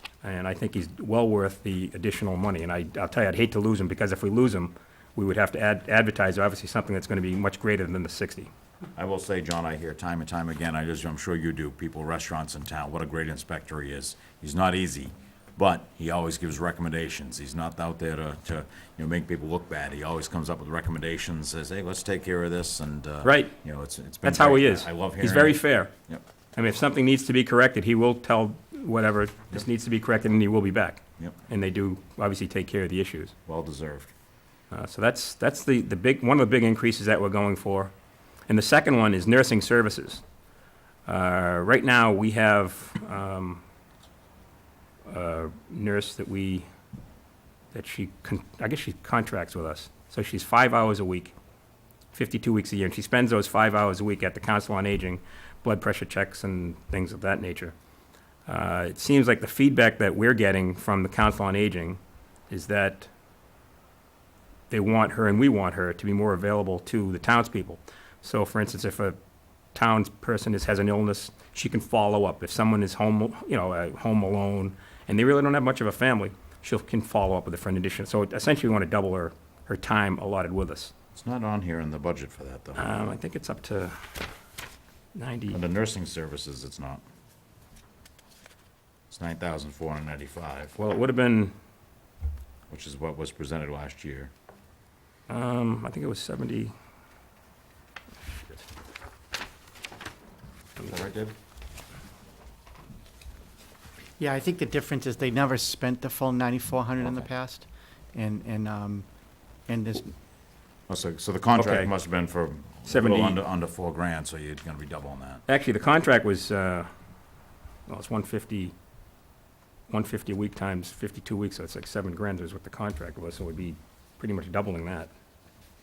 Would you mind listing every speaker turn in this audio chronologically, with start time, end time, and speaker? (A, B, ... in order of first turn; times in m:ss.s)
0:00.2-0:08.5 A
0:09.0-0:26.2 B
0:23.2-0:23.5 A
0:24.2-0:25.9 A
0:26.6-0:33.3 A
0:33.5-0:34.1 B
0:34.7-0:37.9 A
0:38.5-0:40.2 A
0:41.1-0:43.6 A
0:45.1-0:46.7 A
0:47.7-0:51.4 A
0:52.1-0:57.7 A
0:58.5-1:02.0 A
1:02.5-1:03.1 A
1:04.7-1:09.2 A
1:09.7-1:20.9 A
1:21.1-1:22.8 B
1:22.8-1:24.1 A
1:25.2-1:25.6 A
1:25.5-1:27.0 B
1:29.1-1:30.8 B
1:30.8-1:31.6 A
1:32.7-1:34.3 B
1:35.3-1:36.7 A
1:40.8-1:41.3 B
1:44.2-1:49.1 C
1:49.7-1:50.1 C
1:50.9-1:55.4 B
1:51.6-1:51.9 A
1:52.9-1:53.4 A
1:55.5-1:56.9 A
1:57.9-1:58.7 A
1:59.9-2:05.1 A